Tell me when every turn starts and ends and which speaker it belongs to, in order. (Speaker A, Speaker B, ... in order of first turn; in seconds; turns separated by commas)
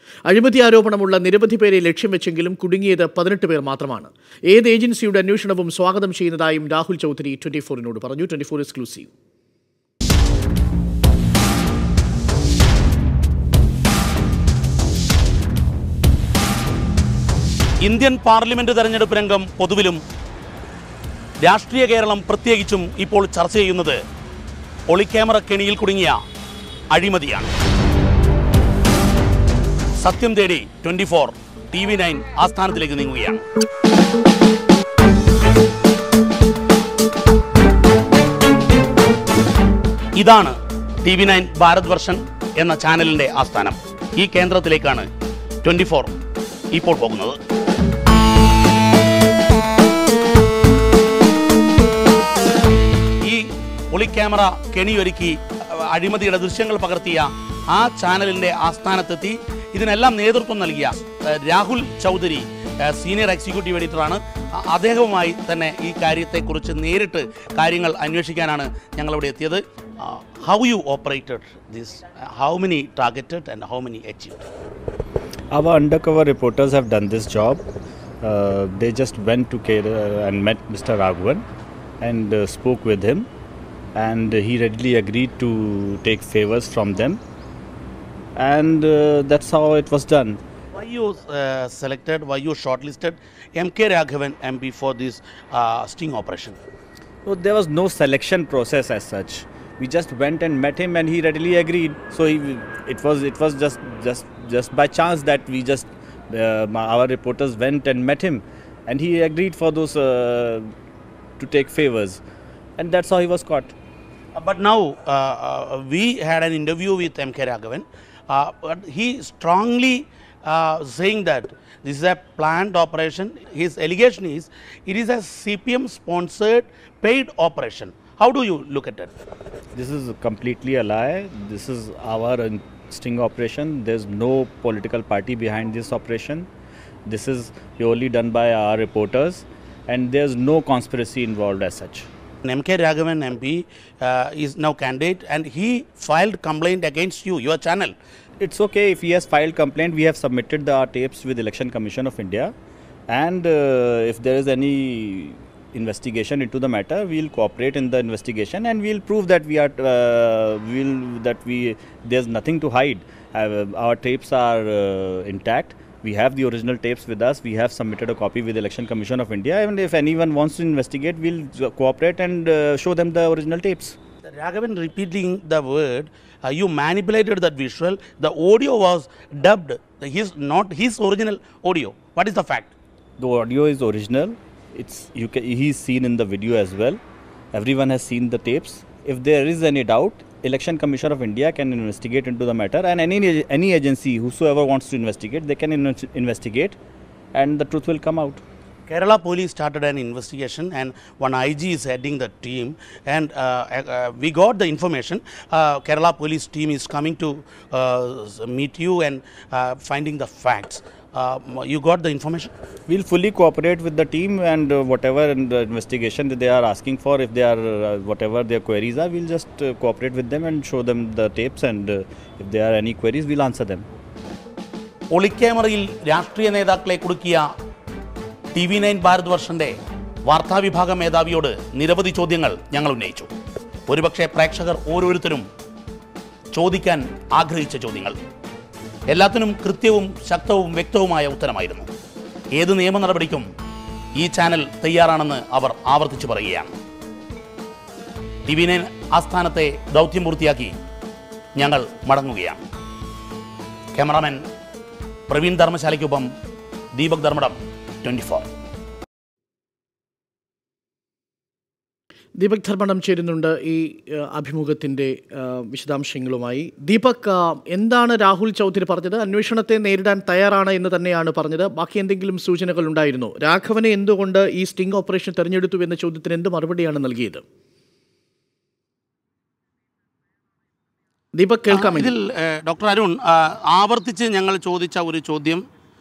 Speaker A: 0.3-9.1, Speaker B: 17.8-20.0, Speaker B: 21.4-24.0, Speaker B: 24.9-26.2, Speaker B: 26.9-27.5, Speaker B: 30.0-33.4, Speaker B: 40.2-45.1, Speaker B: 45.6-46.2, Speaker B: 46.7-47.4, Speaker B: 53.2-74.5, Speaker C: 75.5-77.6, Speaker C: 78.2-81.4, Speaker C: 82.0-83.3, Speaker C: 84.0-87.2, Speaker C: 88.4-90.4, Speaker B: 90.8-96.6, Speaker C: 97.2-110.7, Speaker C: 111.4-112.2, Speaker C: 112.8-113.7, Speaker B: 114.4-129.1, Speaker C: 129.8-136.5, Speaker C: 137.1-142.1, Speaker B: 142.4-147.9, Speaker C: 148.4-152.5, Speaker C: 153.1-174.0, Speaker B: 174.3-182.7, Speaker C: 183.2-187.0, Speaker C: 187.5-196.8, Speaker C: 197.3-198.4, Speaker B: 198.9-212.5, Speaker C: 212.9-223.9, Speaker B: 225.1-227.5, Speaker B: 228.6-229.7, Speaker B: 230.3-233.3, Speaker B: 233.9-235.5, Speaker B: 236.5-238.2, Speaker B: 239.1-241.9, Speaker B: 242.6-243.5, Speaker B: 244.2-246.8, Speaker B: 248.4-250.8, Speaker B: 251.6-252.6, Speaker B: 253.9-254.4, Speaker B: 255.3-256.3, Speaker B: 257.0-258.5, Speaker A: 262.4-277.4, Speaker A: 281.4-282.1, Speaker B: 281.7-285.6